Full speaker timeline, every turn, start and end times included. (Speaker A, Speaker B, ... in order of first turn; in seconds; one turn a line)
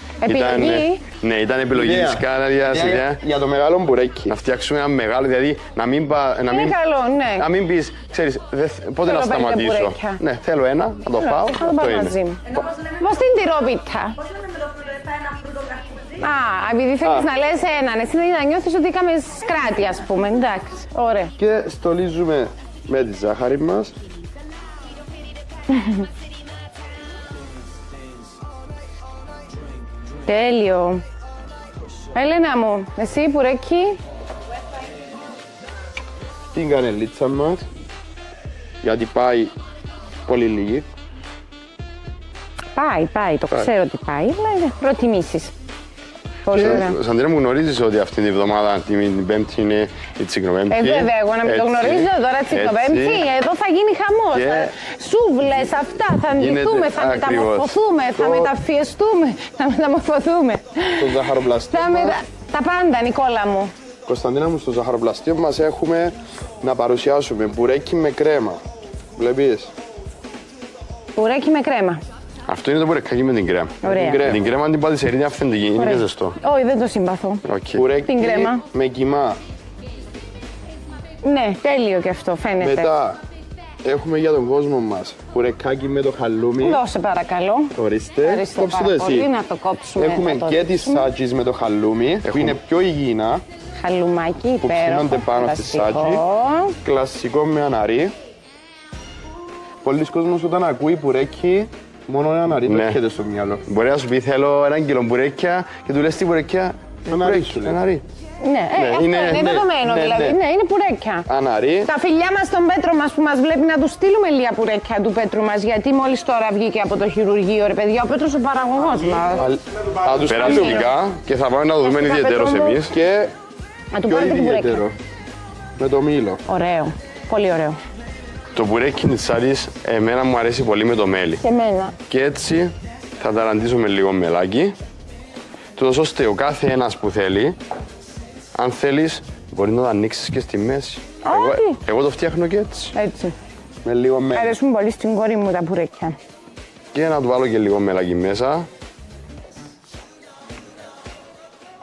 Speaker A: 0.2-1.0
Speaker B: 0.2-3.2
Speaker C: 1.7-4.3
Speaker B: 4.3-6.8
Speaker A: 6.5-7.5
Speaker B: 7.3-12.2
Speaker A: 9.0-10.2
Speaker A: 11.2-14.2
Speaker A: 16.1-21.3
Speaker C: 17.0-17.3
Speaker C: 21.4-23.9
Speaker A: 30.2-31.0
Speaker A: 32.1-34.0
Speaker C: 36.5-37.6
Speaker C: 38.8-39.5
Speaker C: 40.2-40.8
Speaker A: 42.7-45.5
Speaker A: 46.5-47.0
Speaker B: 46.5-53.2
Speaker A: 50.7-63.7
Speaker B: 54.3-54.7
Speaker B: 56.3-58.4
Speaker C: 61.0-62.2
Speaker C: 64.0-68.6
Speaker C: 69.2-69.7
Speaker A: 71.1-72.0
Speaker B: 72.5-76.4
Speaker A: 73.8-74.2
Speaker C: 73.8-74.4
Speaker A: 75.8-77.4
Speaker B: 77.4-77.8
Speaker C: 77.7-79.4
Speaker A: 78.0-78.6
Speaker A: 81.2-82.9
Speaker C: 82.6-83.2
Speaker C: 83.8-86.8
Speaker A: 86.6-91.1
Speaker C: 87.8-89.3
Speaker C: 90.0-93.4
Speaker B: 92.2-92.6
Speaker A: 93.7-96.7
Speaker C: 94.6-96.2
Speaker C: 96.8-98.1
Speaker C: 99.8-103.6
Speaker B: 102.7-103.0
Speaker B: 103.6-108.0
Speaker C: 107.1-107.8
Speaker A: 108.4-111.3
Speaker B: 108.7-109.6
Speaker C: 109.4-110.4
Speaker B: 111.3-111.9
Speaker A: 111.8-119.5
Speaker C: 119.4-120.9
Speaker B: 120.0-123.0
Speaker A: 120.3-120.8
Speaker A: 121.8-122.9
Speaker C: 122.9-123.3
Speaker A: 123.9-124.8
Speaker C: 124.0-125.0
Speaker C: 125.8-126.4
Speaker A: 126.5-127.8
Speaker B: 128.5-131.4
Speaker A: 131.4-131.9
Speaker B: 132.1-134.7
Speaker B: 135.8-137.6
Speaker B: 138.5-142.9
Speaker A: 141.2-141.8
Speaker A: 142.9-143.3
Speaker C: 143.8-144.6
Speaker A: 144.3-146.2
Speaker B: 146.9-148.7